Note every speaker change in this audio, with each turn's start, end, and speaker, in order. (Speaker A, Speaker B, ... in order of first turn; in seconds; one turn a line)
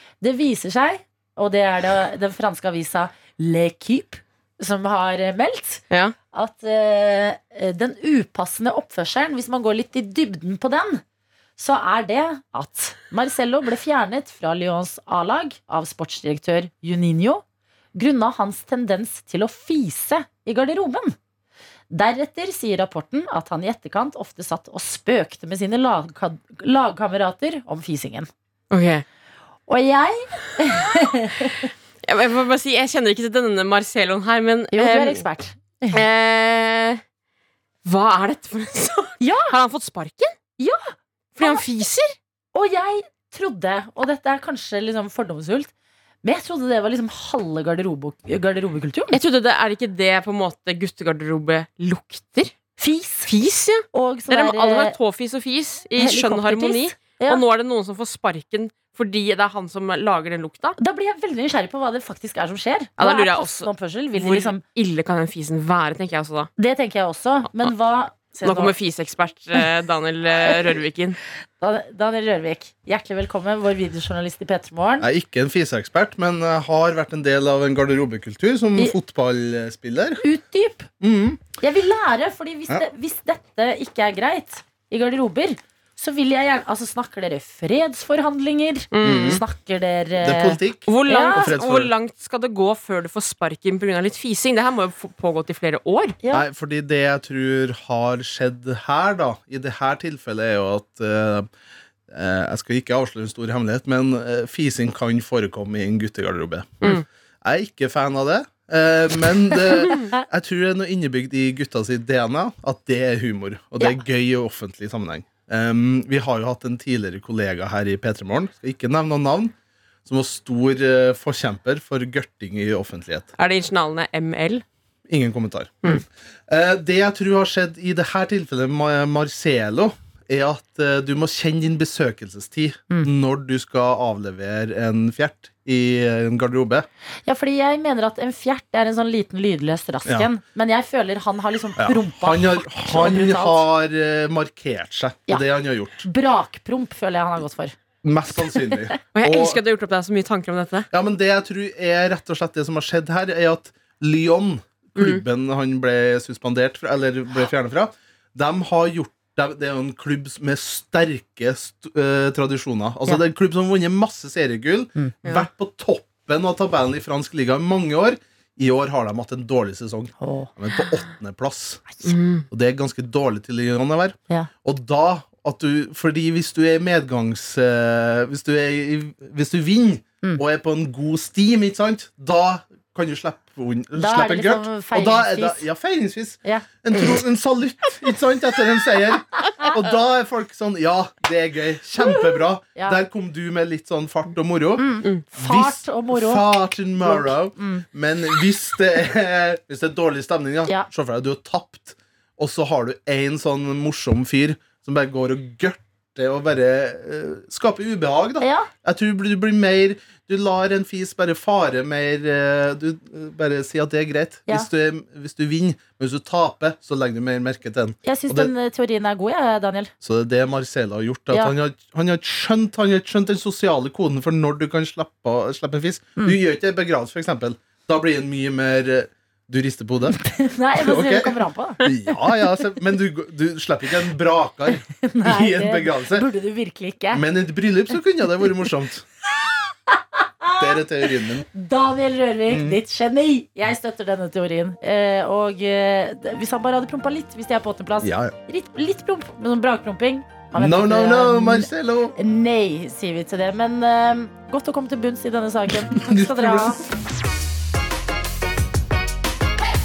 Speaker A: 0.2-11.0
Speaker A: 11.6-17.4
Speaker A: 17.9-21.1
Speaker A: 21.9-28.3
Speaker B: 28.7-29.0
Speaker A: 29.7-31.7
Speaker B: 32.0-35.2
Speaker A: 34.7-36.0
Speaker B: 35.9-37.0
Speaker B: 37.8-40.4
Speaker A: 39.2-39.5
Speaker A: 40.6-41.6
Speaker B: 41.4-42.1
Speaker A: 42.5-45.7
Speaker A: 46.2-49.2
Speaker B: 49.1-52.5
Speaker A: 52.8-53.3
Speaker B: 53.2-60.8
Speaker A: 53.9-55.0
Speaker A: 56.0-57.4
Speaker A: 60.8-64.6
Speaker B: 63.0-66.5
Speaker A: 66.6-68.7
Speaker B: 68.4-71.2
Speaker A: 71.6-75.1
Speaker C: 75.0-80.2
Speaker A: 80.2-80.9
Speaker C: 81.0-81.4
Speaker A: 81.6-91.5
Speaker B: 88.9-89.4
Speaker C: 89.0-89.4
Speaker C: 90.2-91.9
Speaker B: 90.9-96.2
Speaker C: 96.3-101.5
Speaker C: 102.1-119.5
Speaker C: 120.0-123.3
Speaker B: 123.4-124.6
Speaker C: 125.1-136.8
Speaker A: 137.2-143.6
Speaker C: 141.8-146.1
Speaker A: 146.0-147.7
Speaker C: 148.0-149.6
Speaker A: 148.5-148.8
Speaker B: 149.1-150.9
Speaker C: 150.9-171.9
Speaker B: 154.9-155.2
Speaker A: 170.2-170.5
Speaker B: 172.0-172.4
Speaker C: 172.5-218.5
Speaker A: 184.0-185.6
Speaker A: 194.8-197.8
Speaker A: 208.4-208.7
Speaker A: 218.0-219.9
Speaker C: 220.0-230.2
Speaker A: 230.1-231.8
Speaker C: 230.8-236.3
Speaker A: 235.0-237.2
Speaker C: 237.1-239.0
Speaker A: 239.9-256.8
Speaker C: 240.6-241.5
Speaker C: 242.5-242.8
Speaker C: 248.0-248.3
Speaker C: 250.5-252.1
Speaker C: 255.9-256.7